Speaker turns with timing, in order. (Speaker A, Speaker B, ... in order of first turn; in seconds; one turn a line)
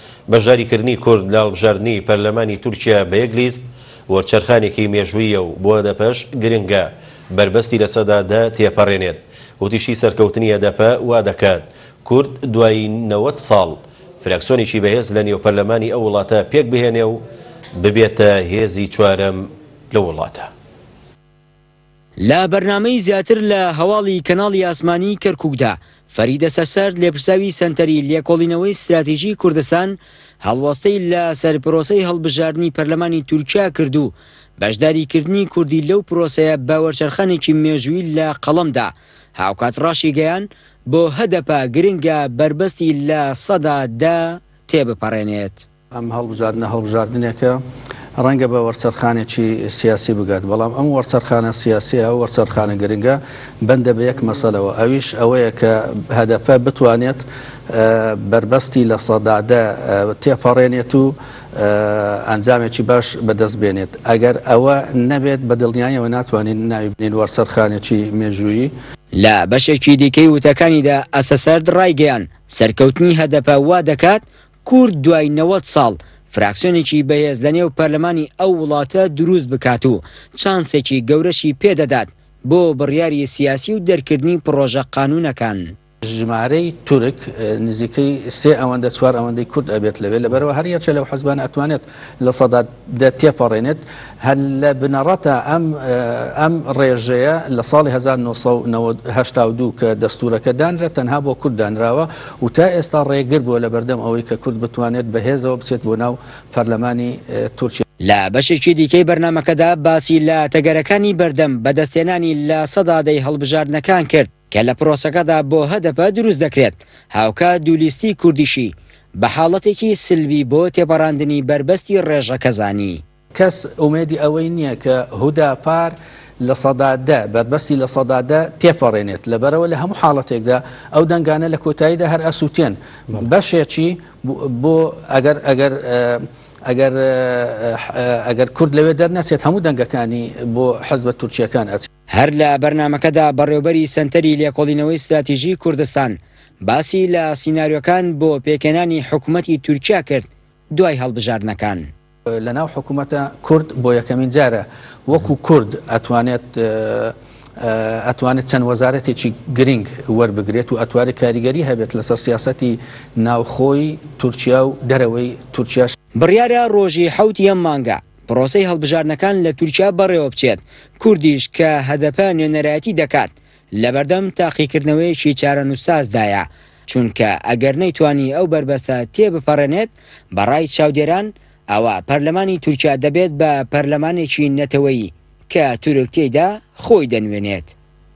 Speaker A: 0.3-17.2
Speaker A: 17.8-20.5
Speaker B: 22.2-45.7
Speaker C: 45.9-47.6
Speaker C: 48.2-68.7
Speaker B: 69.1-85.7
Speaker C: 86.0-107.8
Speaker B: 108.0-123.0
Speaker C: 123.3-141.9
Speaker B: 142.1-151.9
Speaker C: 152.3-165.9
Speaker B: 166.2-187.7